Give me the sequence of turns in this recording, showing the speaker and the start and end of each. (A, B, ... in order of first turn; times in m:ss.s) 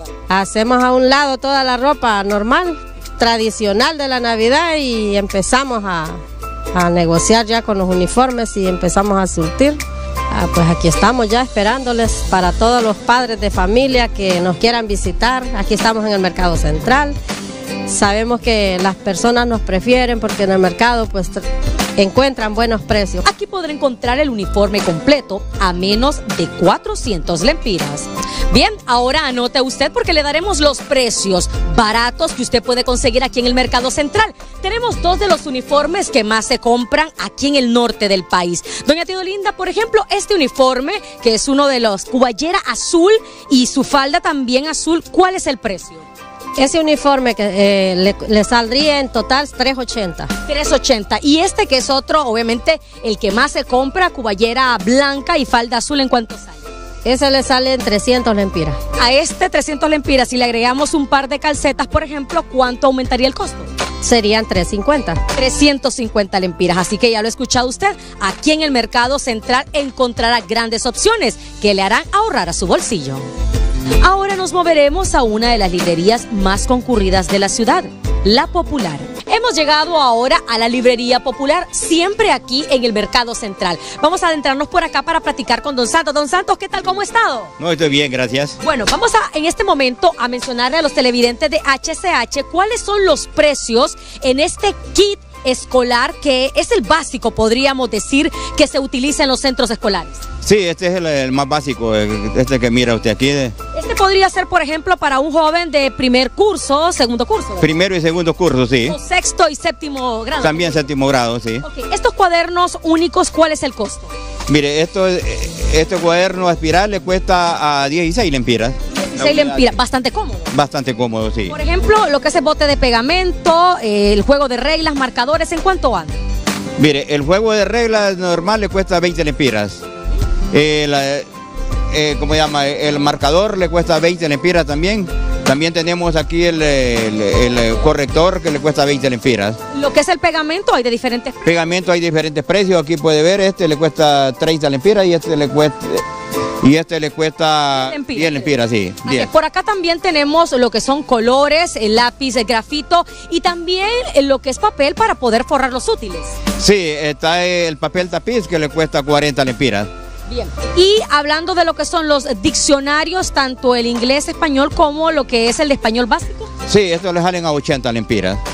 0:00.3-0:06.2 A
0:06.7-0:09.8 A
0:10.3-0:17.2 A
0:17.9-0:21.4 A
0:22.0-0:23.2 A
0:23.2-0:46.1 B
0:46.6-0:50.3 A
0:50.4-0:56.7 B
0:57.0-0:58.8 A
0:58.9-1:03.7 B
1:04.0-1:05.2 A
1:05.3-1:13.3 B
1:14.0-1:27.5 B
1:27.6-1:28.6 C
1:28.6-1:40.2 B
1:40.4-1:43.6 C
1:43.7-1:47.8 B
1:47.6-1:49.0 C
1:48.9-1:50.8 B
1:50.4-1:51.6 C
1:51.6-1:54.1 B
1:54.5-1:59.8 C
1:58.9-2:00.5 B
2:00.5-2:01.5 C
2:01.5-2:06.2 B
2:06.8-2:09.8 C
2:10.5-2:11.3 C
2:11.9-2:19.6 C
2:19.7-2:21.5 B
2:21.4-2:26.0 C
2:26.6-2:29.3 C
2:27.7-2:28.5 B
2:29.0-2:36.3 B
2:36.6-2:39.9 C
2:40.3-2:46.5 B
2:46.7-2:48.4 C